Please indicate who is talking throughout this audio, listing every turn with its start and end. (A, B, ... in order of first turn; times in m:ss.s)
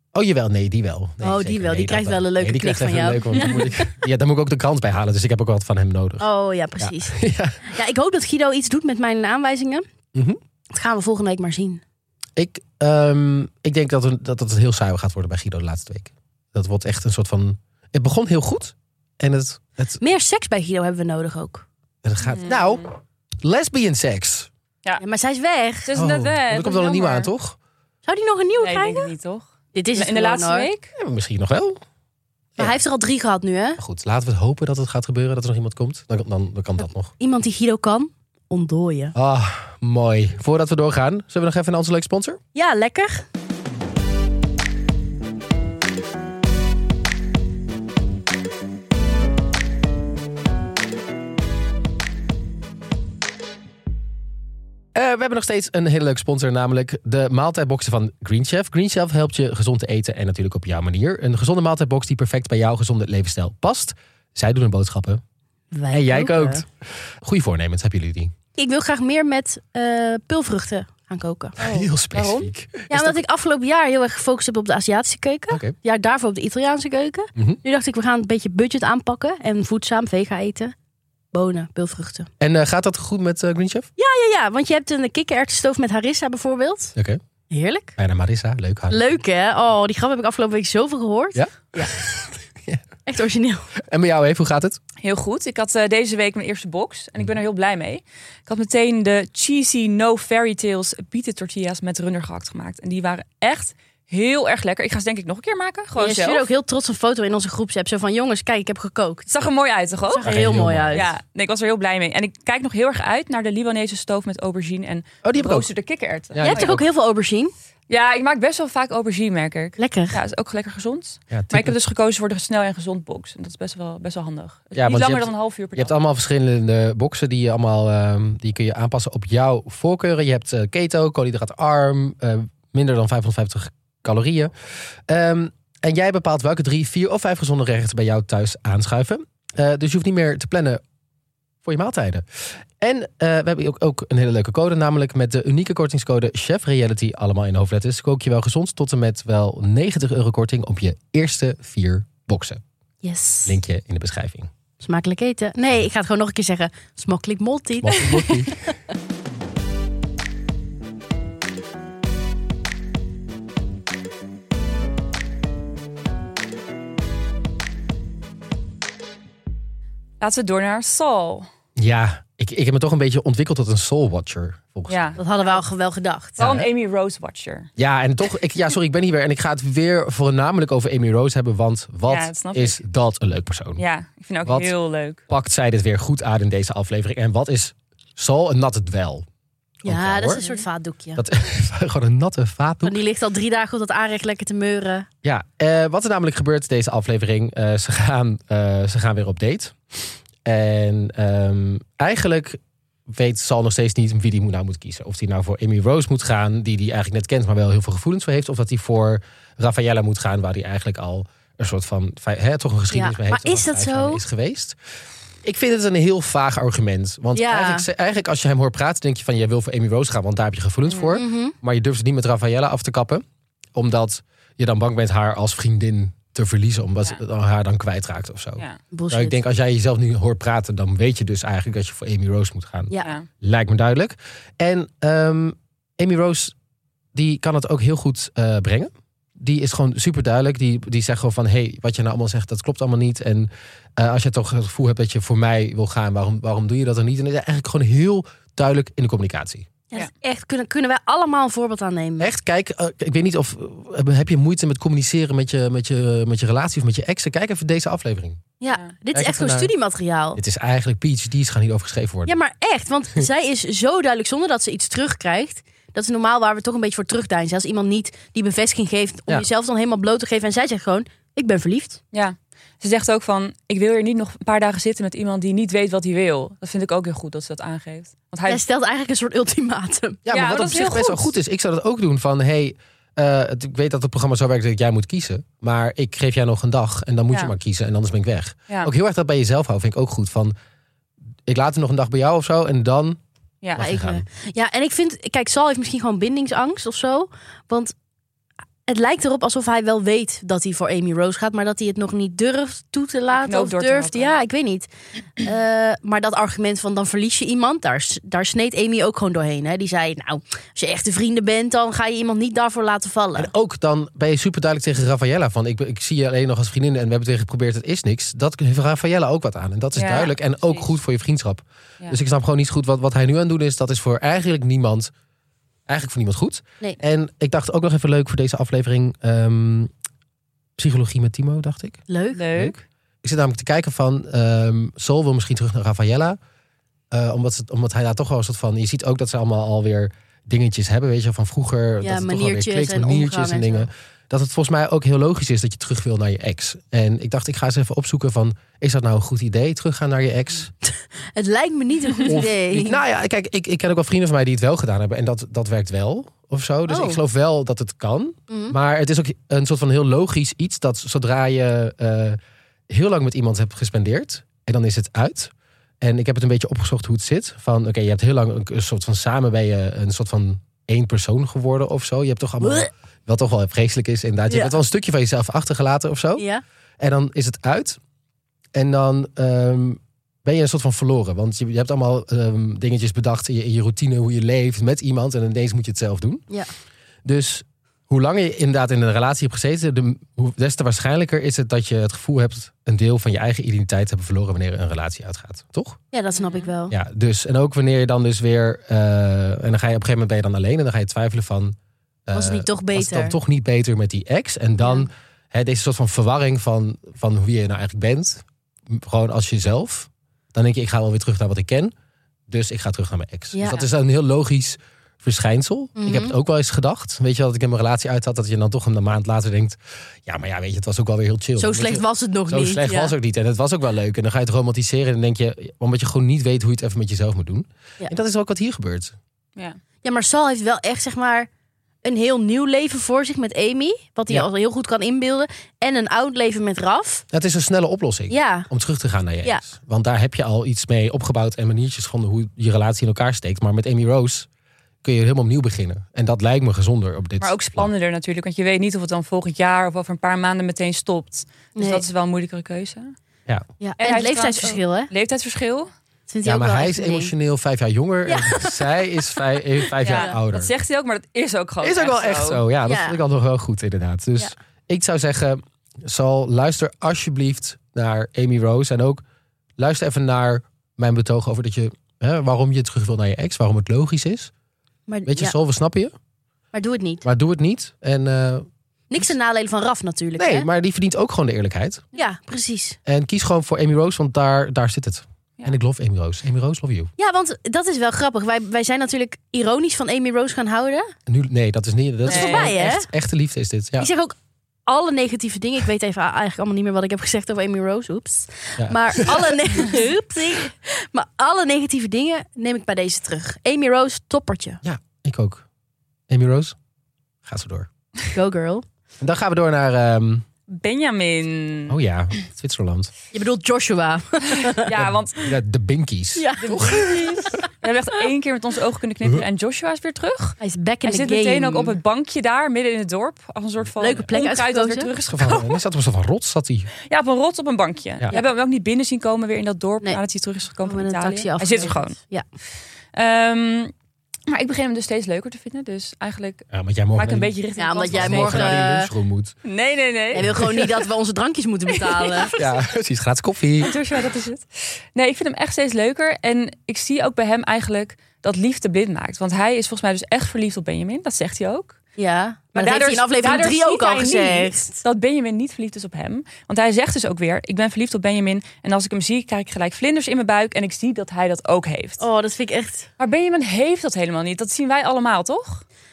0:00.1-0:06.2 A
0:01.2-0:03.9 B
0:06.2-0:09.8 B
0:06.8-0:07.6 A
0:10.1-0:10.4 A
0:10.7-0:11.8 B
0:12.4-0:20.0 A
0:20.0-0:21.7 B
0:22.0-0:22.9 A
0:22.3-0:22.8 C
0:23.4-0:24.5 A
0:25.0-0:25.9 B
0:25.9-0:27.3 C
0:25.9-0:27.6 A
0:28.1-0:29.1 B
0:28.6-0:30.9 C
0:29.7-0:30.7 B
0:31.0-0:31.8 A
0:32.6-0:33.8 B
0:33.8-0:37.1 A
0:37.2-0:39.2 B
0:39.2-0:42.4 A
0:42.5-0:43.2 B
0:55.0-1:05.2 A
1:05.7-1:06.6 B
1:05.9-1:08.3 A
1:08.6-1:11.6 B
1:11.6-1:13.2 A
1:11.6-1:12.5 C
1:12.9-1:20.7 B
1:21.3-1:22.3 B
1:22.4-1:23.9 A
1:24.0-1:27.0 B
1:27.5-1:28.0 B
1:28.0-1:29.0 A
1:28.9-1:32.0 B
1:31.4-1:32.8 A
1:33.1-1:33.7 B
1:33.8-1:34.8 A
1:35.0-1:46.5 C
1:46.0-1:49.3 B
1:49.3-1:50.3 C
1:50.1-1:51.1 B
1:50.2-1:51.1 A
1:50.9-1:56.8 C
1:55.2-1:55.7 A
1:56.3-1:56.8 A
1:56.4-1:57.5 B
1:57.9-2:05.9 C
1:59.8-2:00.2 B
2:01.3-2:01.8 A
2:04.8-2:14.5 A
2:15.1-2:20.8 A
2:21.6-2:22.2 A
2:22.8-2:32.6 A
2:33.0-2:33.6 B
2:33.5-2:34.5 A
2:34.8-2:38.5 B
2:37.8-2:38.6 A
2:50.2-2:51.5 C
2:51.8-2:55.2 A
2:54.9-2:55.2 C
2:55.2-2:56.4 B
2:56.4-2:56.7 A
2:56.4-2:57.7 C
2:57.8-3:03.8 A
3:02.1-3:02.8 C
3:03.8-3:05.2 C
3:04.4-3:04.7 A
3:05.3-3:09.2 A
3:09.8-3:11.2 B
3:09.9-3:10.4 A
3:11.2-3:13.0 A
3:12.8-3:15.1 B
3:15.2-3:34.8 A
3:32.9-3:34.2 B
3:35.4-3:43.2 A
3:37.3-3:37.9 B
3:40.9-3:41.2 C
3:41.2-3:41.6 B
3:43.8-3:56.5 A
3:48.9-3:49.4 B
3:57.1-4:09.7 A
4:09.9-4:12.3 B
4:12.2-4:18.4 A
4:18.6-4:20.4 B
4:19.1-4:19.7 A
4:20.4-4:22.4 A
4:22.2-4:32.0 B
4:32.1-4:38.6 C
4:38.5-4:40.2 B
4:40.2-4:50.5 A
4:40.3-4:41.3 C
4:51.5-4:53.2 A
4:53.8-4:54.2 A
4:53.8-4:57.9 B
4:58.9-5:13.5 B
5:03.3-5:04.4 C
5:13.4-5:25.1 A
5:20.0-5:20.9 C
5:25.9-5:29.9 A
5:30.8-5:32.0 A
5:32.1-5:32.4 B
5:32.3-5:32.8 C
5:32.6-5:36.4 A
5:37.1-5:50.7 A
5:42.0-5:43.9 B
5:50.8-5:53.0 B
5:52.2-6:02.4 A
5:56.9-5:57.2 B
5:58.5-5:58.8 B
6:02.9-6:16.4 A
6:12.6-6:12.9 B
6:14.5-6:14.8 B
6:16.4-6:16.6 B
6:17.0-6:18.0 A
6:18.7-6:26.4 A
6:27.2-6:36.0 A
6:36.1-6:37.0 B
6:36.4-6:36.7 C
6:36.9-6:41.8 A
6:42.3-6:51.9 A
6:42.3-6:43.4 B
6:44.8-6:45.1 B
6:52.5-7:09.2 A
6:53.5-6:53.8 B
6:56.0-6:56.4 B
7:01.6-7:03.1 B
7:10.0-7:11.5 B
7:12.0-7:17.2 B
7:17.3-7:24.5 A
7:18.3-7:18.7 B
7:25.0-7:27.9 A
7:27.4-7:33.1 C
7:31.8-7:32.0 B
7:33.8-7:35.1 B
7:34.0-7:35.9 C
7:36.3-7:37.3 B
7:36.4-7:40.7 A
7:38.3-7:38.8 B
7:40.0-7:42.6 C
7:40.0-7:40.4 B
7:41.8-7:49.2 A
7:42.9-7:43.2 B
7:49.8-7:54.5 A
7:55.1-7:55.6 B
7:55.3-7:56.1 A
7:56.7-7:57.2 B
7:57.2-7:58.7 A
7:59.1-8:00.7 B
8:00.4-8:02.0 A
8:02.1-8:03.0 B
8:03.1-8:07.1 A
8:07.2-8:11.1 B
8:11.3-8:14.1 A
8:12.3-8:13.1 B
8:12.3-8:12.7 C
8:14.0-8:14.4 B
8:14.9-8:24.8 B
8:18.8-8:19.6 A
8:24.8-8:25.6 A
8:26.3-8:26.8 A
8:27.4-8:27.9 A
8:28.3-8:28.8 B
8:29.2-8:30.4 A
8:30.7-8:32.0 C
8:31.9-8:33.1 A
8:33.3-8:34.9 B
8:34.6-8:35.5 C
8:34.9-8:37.6 A
8:36.4-8:37.6 B
8:36.6-8:45.8 C
8:40.6-8:42.0 B
8:44.0-8:45.1 B
8:45.3-8:46.9 A
8:47.1-8:52.2 C
8:50.8-8:52.4 B
8:53.1-8:53.9 C
8:54.5-8:58.8 C
8:56.7-8:57.5 A
8:57.8-8:59.1 B
8:58.1-8:59.5 A
8:59.6-9:00.9 C
9:00.3-9:02.5 B
9:00.4-9:00.8 A
9:01.9-9:02.8 C
9:02.6-9:04.0 A
9:03.8-9:12.0 C
9:12.2-9:15.0 B
9:12.8-9:22.2 C
9:22.2-9:23.1 B
9:23.2-9:25.8 C